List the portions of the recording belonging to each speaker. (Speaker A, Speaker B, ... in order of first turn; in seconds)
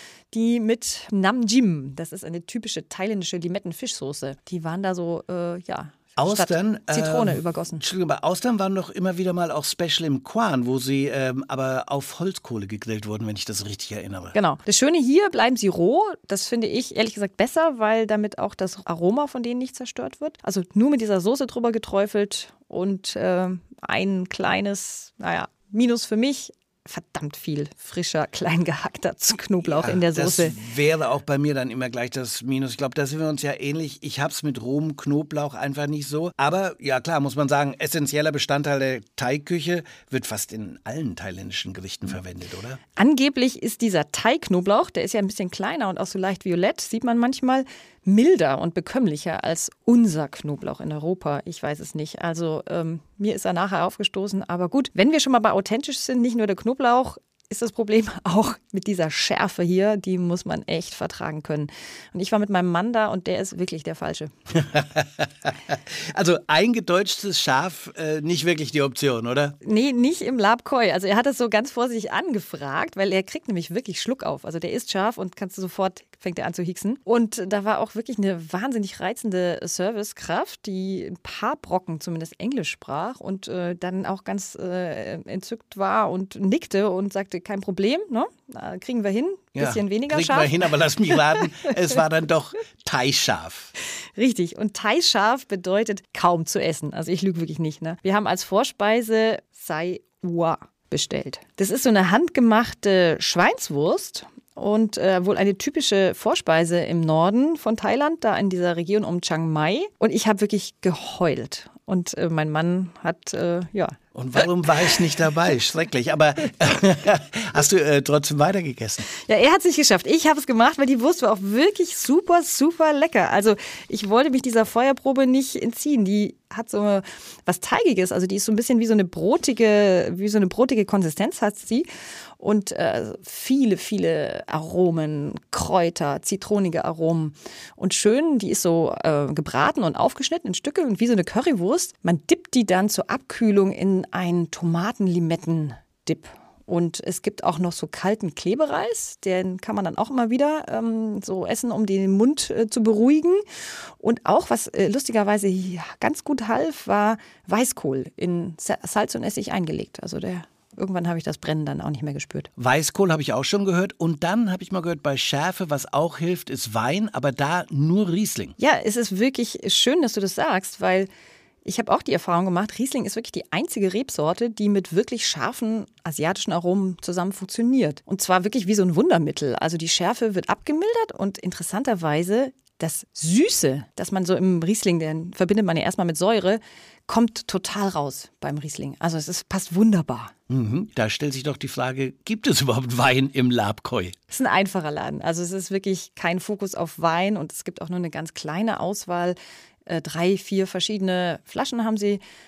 Speaker A: 0.3-7.8, 14.3-30.5, 43.0-64.3, 69.6-90.5, 94.2-114.0, 119.2-131.9, 132.4-153.4, 154.0-162.5, 168.6-171.1, 171.6-190.3, 194.3-202.2
Speaker B: 6.2-14.3, 29.6-42.8, 64.5-69.6, 89.5-93.7, 114.1-119.1, 162.6-168.5, 190.5-194.1